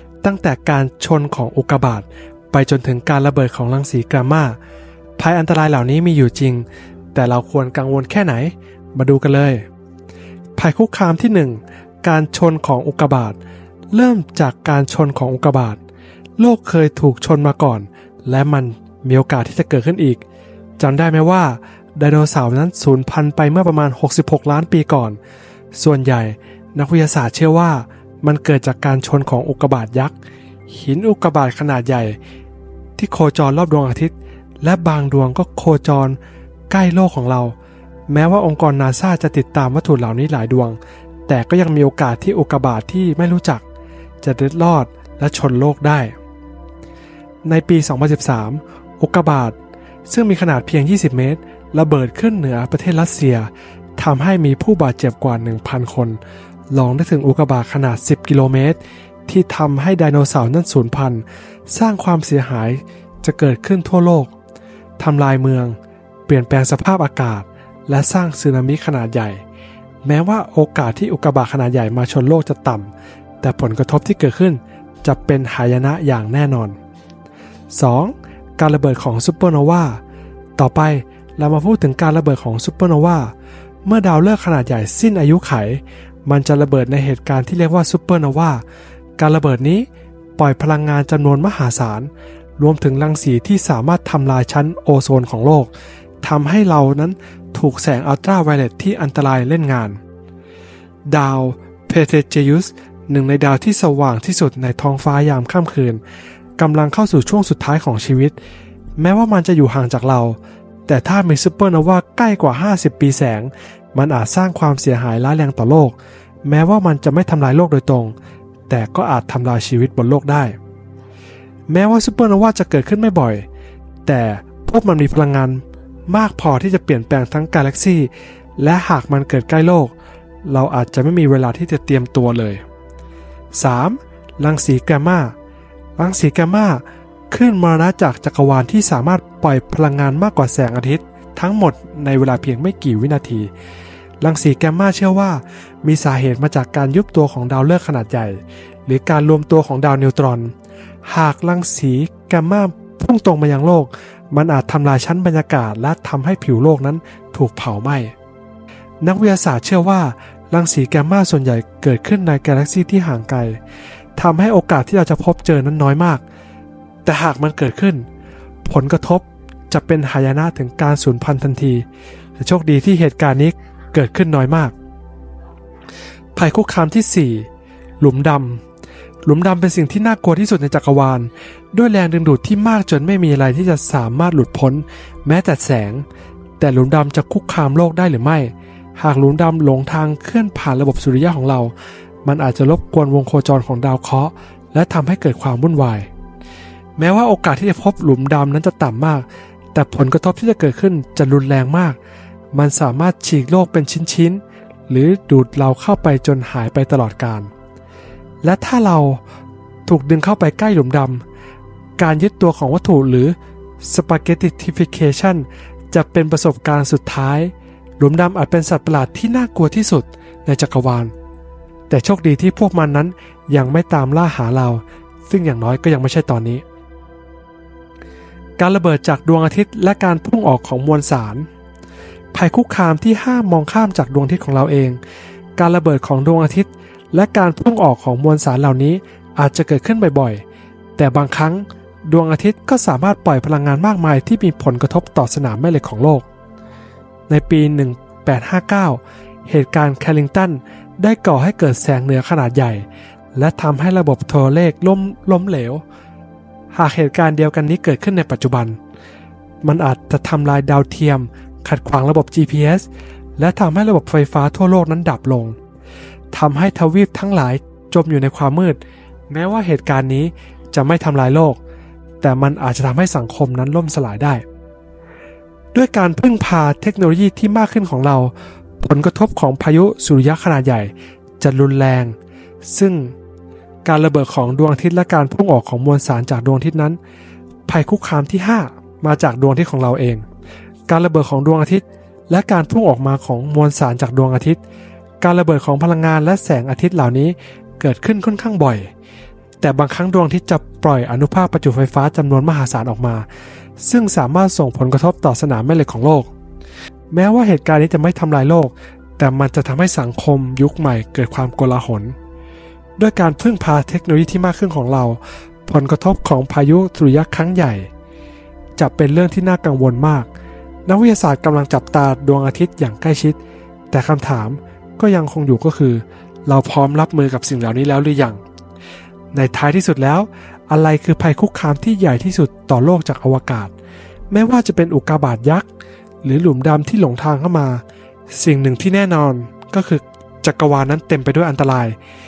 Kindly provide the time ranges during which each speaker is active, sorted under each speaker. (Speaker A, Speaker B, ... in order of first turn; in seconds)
Speaker A: 0.2-4.6, 5.2-9.6, 10.6-13.4, 13.9-15.8, 16.4-20.2, 20.8-25.2, 25.7-30.1, 30.7-32.1, 33.0-36.2, 36.7-37.5, 38.1-43.6, 44.2-46.1, 47.4-56.2, 56.7-64.3, 65.0-65.8, 66.3-69.4, 70.0-72.9, 73.4-76.8, 77.7-80.0, 80.6-83.3, 83.8-88.6, 89.2-89.8, 90.4-95.7, 96.2-100.0, 101.1-106.0, 106.6-108.3, 109.0-118.1, 118.7-120.5, 121.7-123.4, 124.0-129.9, 130.4-132.6, 133.6-135.3, 136.0-143.5, 144.2-150.5, 151.1-158.1, 159.0-163.6, 164.2-166.2, 167.0-168.1, 168.6-171.8, 172.4-174.7, 176.3-177.5, 178.0-178.6, 179.2-186.0, 186.6-191.7, 192.2-196.1, 197.0-201.9, 202.5-207.5, 208.4-209.2, 209.9-211.2, 212.0-221.1, 221.9-226.6, 228.6-231.5, 232.3-235.0, 235.6-240.4, 241.0-246.2, 247.3-255.8, 256.7-258.8, 259.6-262.9, 263.4-265.6, 266.3-268.8, 269.3-271.6, 272.2-274.4, 275.7-282.1, 282.7-283.1, 283.8-287.0, 287.7-290.2, 290.9-294.6, 295.2-298.9, 299.6-303.2, 303.8-306.3, 307.1-312.1, 313.0-317.9, 318.8-320.3, 320.9-323.4, 323.9-328.4, 329.3-333.7, 334.3-335.6, 336.2-341.9